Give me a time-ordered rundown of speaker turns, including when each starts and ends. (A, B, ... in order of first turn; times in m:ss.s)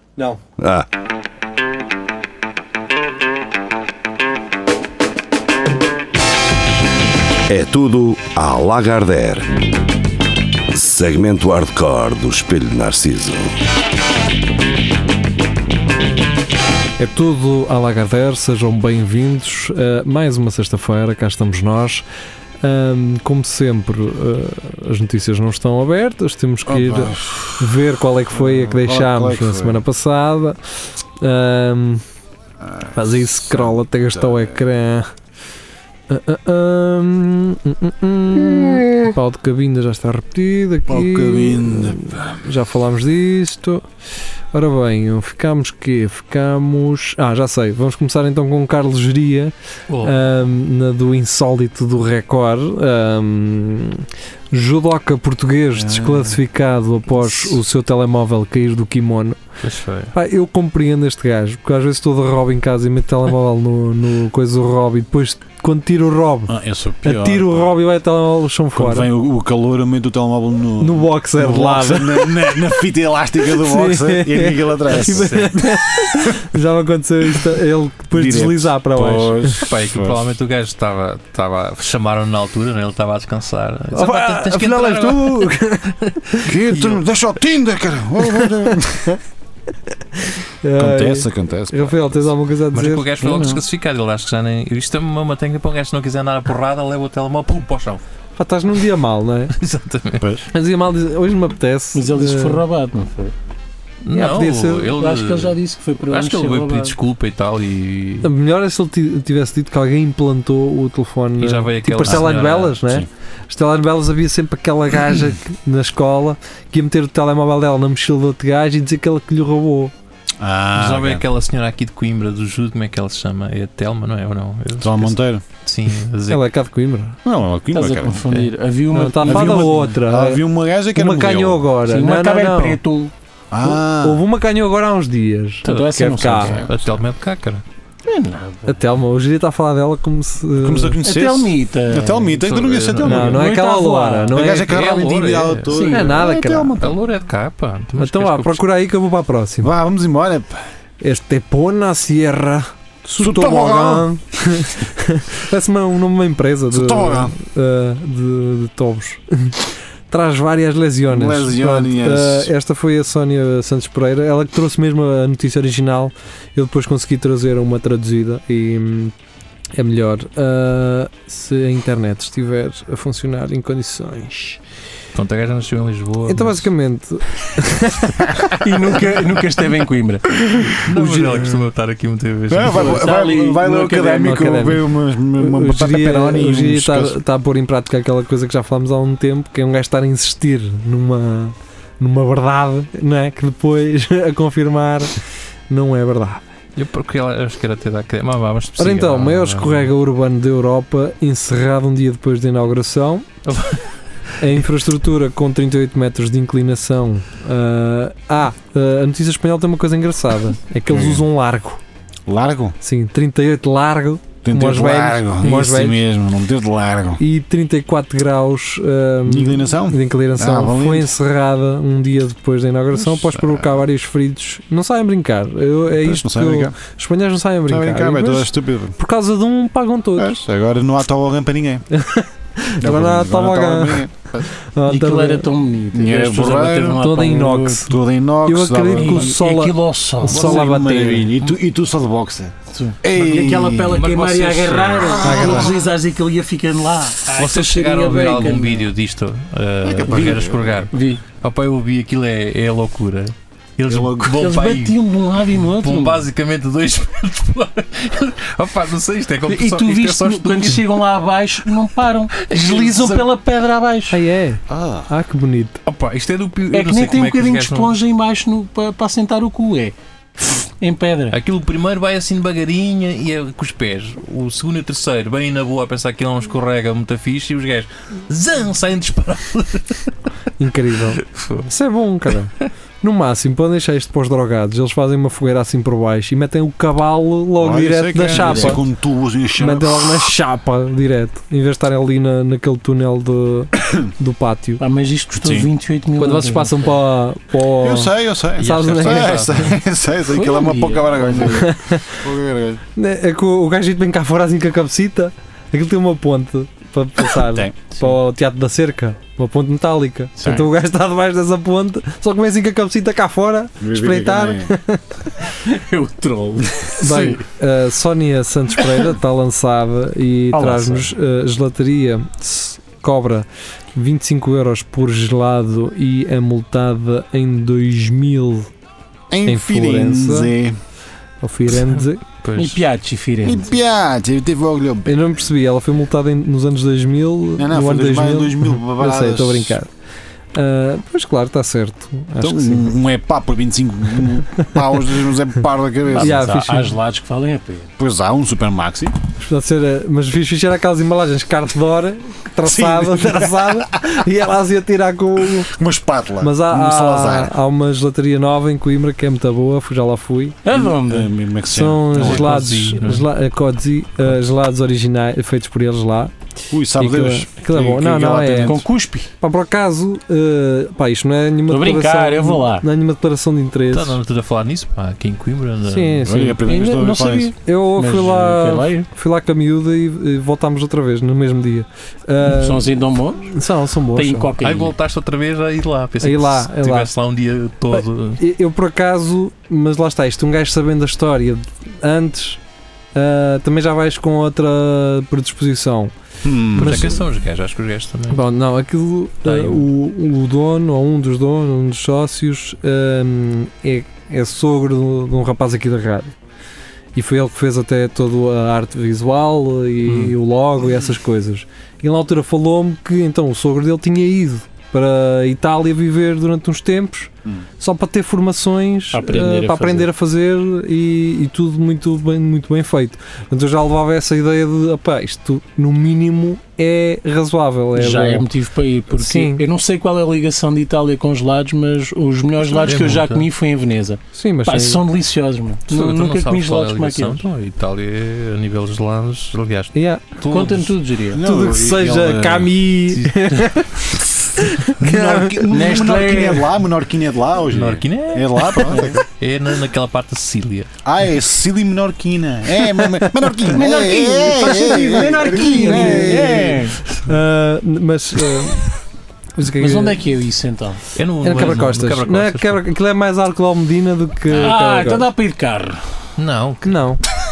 0:00.6-0:00.8 A
0:07.5-0:09.6 A
0:10.7-0:13.5 A
0:17.0-0:22.0 B
0:22.6-0:30.6 B
0:26.6-0:27.8 C
0:28.3-0:29.8 C
0:31.2-0:32.0 B
0:32.6-0:34.6 C
0:32.9-0:35.1 B
0:36.1-0:43.8 B
0:38.5-0:38.9 C
0:40.9-0:42.4 C
0:44.5-0:59.4 B
0:49.9-0:50.2 D
0:55.8-0:56.4 C
0:59.6-1:00.1 D
1:00.1-1:09.1 B
1:06.5-1:07.7 C
1:08.7-1:15.6 C
1:10.8-1:12.8 B
1:13.5-1:19.6 B
1:14.9-1:15.6 D
1:18.1-1:20.2 C
1:19.6-1:25.6 D
1:23.9-1:26.5 B
1:26.4-1:29.1 C
1:26.7-1:27.0 D
1:28.2-1:29.2 B
1:30.1-1:33.0 B
1:30.8-1:32.3 C
1:32.7-1:38.0 D
1:33.2-1:33.6 E
1:38.4-1:39.5 B
1:39.5-1:40.3 D
1:40.2-1:40.4 C
1:40.5-1:42.6 B
1:41.9-1:43.3 E
1:44.0-1:48.3 D
1:44.1-1:45.0 B
1:45.0-1:46.9 E
1:48.2-1:59.9 B
1:51.4-1:52.8 D
1:52.0-1:53.1 C
2:00.4-2:01.2 C
2:00.7-2:06.4 D
2:04.8-2:05.4 C
2:06.3-2:07.2 B
2:07.2-2:08.2 C
2:07.7-2:09.9 E
2:08.3-2:08.5 D
2:08.9-2:10.4 B
2:09.2-2:11.6 C
2:10.9-2:12.8 B
2:11.8-2:13.1 E
2:13.5-2:14.2 C
2:13.6-2:16.6 B
2:15.6-2:16.7 E
2:15.6-2:17.6 D
2:18.0-2:18.8 E
2:18.7-2:21.0 B
2:20.6-2:23.4 C
2:21.0-2:22.4 E
2:22.3-2:23.4 D
2:23.0-2:24.8 B
2:23.2-2:24.4 E
2:24.3-2:27.0 C
2:24.5-2:25.8 D
2:25.7-2:26.1 E
2:25.8-2:26.8 B
2:26.8-2:28.6 D
2:28.0-2:29.7 B
2:29.6-2:30.6 C
2:31.0-2:39.6 B
2:33.2-2:34.1 C
2:36.7-2:37.3 C
2:40.1-2:49.1 B
2:41.1-2:42.5 C
2:49.8-2:54.6 B
2:55.1-2:56.7 D
2:56.3-2:58.5 B
2:58.6-3:00.8 E
3:00.8-3:03.0 D
3:00.9-3:01.6 C
3:02.5-3:07.2 C
3:02.6-3:04.5 E
3:04.1-3:15.1 B
3:15.7-3:16.4 B
3:16.8-3:19.9 D
3:18.8-3:23.2 B
3:23.5-3:23.8 D
3:24.4-3:31.8 B
3:30.9-3:31.2 C
3:32.2-3:32.8 C
3:32.8-3:36.0 B
3:34.4-3:37.2 C
3:37.2-3:50.4 B
3:39.2-3:41.1 C
3:43.0-3:43.8 C
3:45.9-3:46.7 C
3:47.7-3:49.0 C
3:50.2-3:51.8 C
3:51.9-3:54.0 B
3:52.8-3:54.5 C
3:54.6-3:55.5 B
3:54.9-3:57.8 E
3:55.9-3:57.0 C
3:56.9-4:01.3 B
3:57.8-3:59.3 C
3:58.9-4:00.7 E
4:00.2-4:04.0 C
4:02.7-4:08.9 E
4:03.8-4:05.7 D
4:05.2-4:05.7 B
4:05.3-4:05.6 C
4:07.3-4:20.8 D
4:09.8-4:10.9 C
4:10.9-4:11.2 E
4:13.9-4:14.5 C
4:14.3-4:16.2 E
4:19.5-4:24.2 E
4:22.3-4:23.2 D
4:24.1-4:25.8 B
4:24.7-4:25.1 C
4:25.8-4:28.0 D
4:26.7-4:31.3 E
4:31.3-4:40.1 D
4:40.6-4:48.8 B
4:41.2-4:41.7 D
4:47.6-4:50.3 C
4:48.3-4:48.8 E
4:49.6-4:54.8 B
4:54.8-4:56.9 E
4:55.4-4:55.7 C
4:56.2-4:59.6 B
4:57.7-5:02.8 C
4:58.6-4:59.8 D
5:00.3-5:01.7 E
5:01.5-5:02.2 B
5:03.0-5:15.0 B
5:07.4-5:07.8 C
5:10.4-5:10.7 C
5:13.8-5:14.7 C
5:15.6-5:17.4 E
5:17.0-5:28.7 B
5:20.5-5:21.1 E
5:29.3-5:30.8 C
5:29.4-5:30.5 B
5:31.4-5:32.2 B
5:32.4-5:32.8 D
5:32.6-5:33.7 E
5:33.4-5:35.2 C
5:35.0-5:39.9 B
5:37.6-5:39.8 C
5:40.5-5:42.9 B
5:42.4-5:46.7 C
5:46.1-5:46.9 B
5:46.2-5:47.9 E
5:48.0-5:49.2 C
5:49.4-5:55.7 B
5:52.6-5:54.2 C
5:55.7-5:57.5 C
5:56.4-6:00.6 B
6:00.6-6:01.3 E
6:00.7-6:02.5 C
6:01.7-6:06.3 B
6:02.1-6:03.2 D
6:06.7-6:08.8 C
6:06.9-6:08.8 B
6:08.6-6:09.3 E
6:09.4-6:14.2 B
6:11.7-6:12.9 E
6:13.9-6:16.3 D
6:15.8-6:16.8 B
6:16.2-6:17.5 C
6:16.6-6:19.1 E
6:17.6-6:22.9 B
6:22.4-6:23.5 E
6:23.4-6:24.5 B
6:24.1-6:24.9 E
6:24.6-6:28.4 D
6:26.2-6:27.1 B
6:27.9-6:32.6 B
6:33.1-6:36.1 B
6:36.4-6:37.2 C
6:36.7-6:37.2 B
6:36.8-6:38.4 D
6:38.3-6:46.4 B
6:39.4-6:39.9 D
6:47.1-7:08.5 B
6:50.1-6:50.3 E
6:59.1-7:00.1 E
7:07.9-7:17.4 E
7:09.1-7:09.6 B
7:12.7-7:13.5 D
7:14.3-7:15.0 B
7:15.9-7:20.9 D
7:19.9-7:20.2 B
7:20.5-7:21.4 E
7:21.3-7:22.7 C
7:21.4-7:25.9 B
7:23.1-7:23.6 D
7:25.0-7:29.2 C
7:25.7-7:26.8 E
7:27.7-7:30.9 D
7:28.8-7:29.2 E
7:31.0-7:36.9 C
7:33.0-7:33.3 B
7:33.6-7:37.0 E
7:34.7-7:36.7 B
7:37.2-7:38.9 B
7:39.5-7:40.2 B
7:39.8-7:41.0 E
7:41.1-7:42.8 D
7:41.4-7:45.3 B
7:44.5-7:46.0 E
7:46.4-7:46.9 D
7:46.8-7:47.2 B